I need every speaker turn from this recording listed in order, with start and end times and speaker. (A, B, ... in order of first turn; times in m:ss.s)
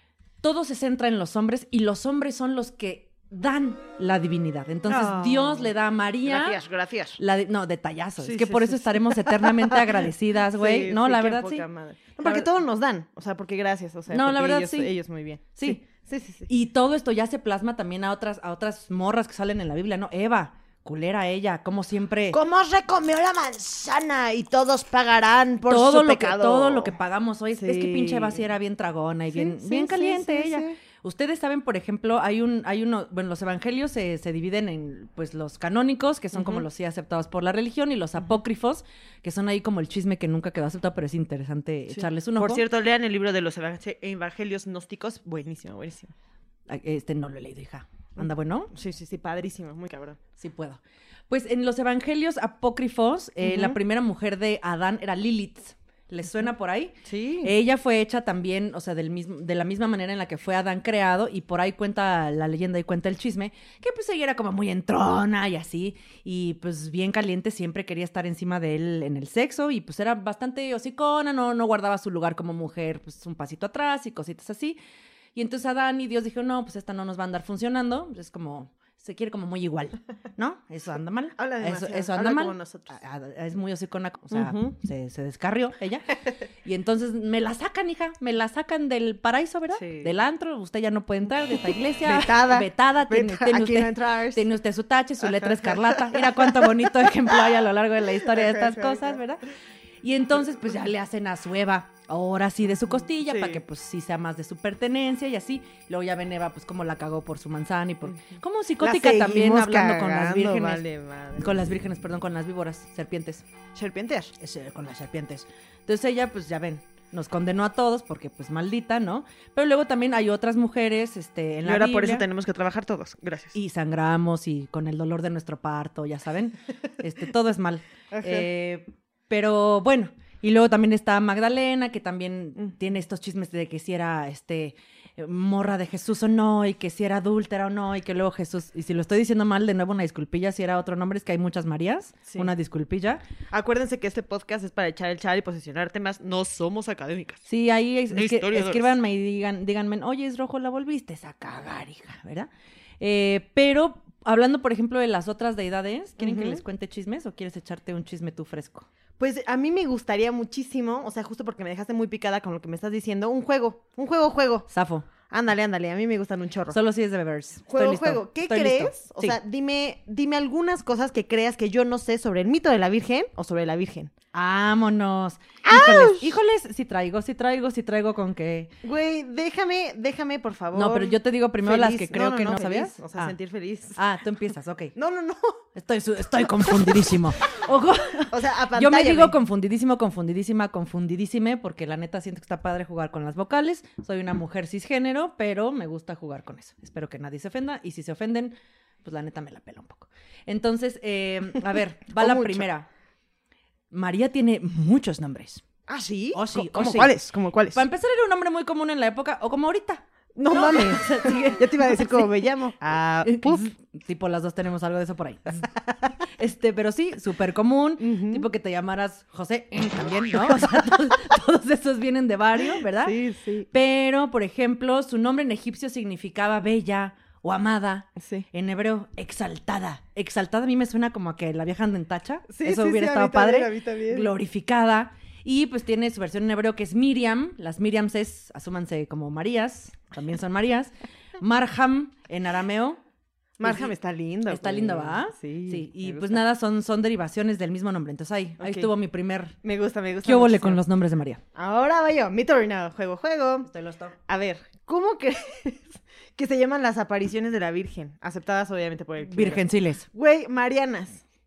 0:00.4-0:06.6 A
0:04.9-0:05.7 B
0:06.2-0:07.2 B
0:07.2-0:11.6 A
0:08.2-0:16.5 B
0:12.2-0:12.5 A
0:14.1-0:14.9 A
0:15.5-0:15.8 A
0:16.5-0:22.4 A
0:22.3-0:27.0 B
0:25.7-0:42.6 A
0:27.5-0:28.4 B
0:29.3-0:30.8 B
0:36.3-0:36.6 B
0:41.9-0:46.1 B
0:46.7-0:48.7 A
0:48.2-0:50.2 B
0:50.4-1:14.8 A
0:53.4-0:53.8 B
0:57.0-0:57.5 B
1:15.3-1:39.4 A
1:21.4-1:23.0 B
1:24.3-1:24.7 B
1:29.7-1:30.1 B
1:32.0-1:34.4 B
1:35.2-1:37.4 B
1:38.2-1:39.2 B
1:40.0-1:50.8 A
1:42.7-1:43.6 B
1:48.8-1:51.7 B
1:51.4-1:53.4 A
1:53.7-1:54.3 B
1:54.4-2:02.2 A
2:01.6-2:03.6 B
2:03.5-2:23.2 A
2:08.1-2:08.5 B
2:23.5-2:27.4 B
2:27.5-2:32.5 A
2:28.1-2:29.0 B
2:33.0-2:38.9 A
2:36.2-2:36.6 B
2:39.2-2:44.7 B
2:44.7-2:45.0 A
2:45.3-2:46.8 B
2:46.7-2:49.4 A
2:47.7-2:54.1 B
2:54.3-2:58.7 A
2:55.6-2:56.3 B
2:58.8-3:04.0 B
3:00.7-3:03.3 A
3:03.9-3:04.9 A
3:04.9-3:05.6 B
3:05.7-3:22.9 A
3:08.3-3:09.4 B
3:22.2-3:22.7 B
3:23.9-3:25.6 A
3:25.9-3:27.8 B
3:26.3-3:27.1 A
3:27.7-3:32.3 A
3:30.4-3:33.7 B
3:33.2-3:35.7 A
3:35.6-3:36.1 B
3:36.4-3:43.2 A
3:38.0-3:38.5 B
3:40.3-3:40.8 B
3:42.6-3:43.7 B
3:43.7-4:03.0 A
3:48.2-3:48.5 B
3:52.5-3:54.3 B
4:03.6-4:06.4 B
4:03.6-4:03.9 A
4:04.5-4:09.5 A
4:08.6-4:08.9 B
4:09.6-4:10.8 B
4:10.2-4:11.4 A
4:11.5-4:13.7 B
4:13.6-4:14.2 A
4:14.3-4:21.2 B
4:19.2-4:20.0 A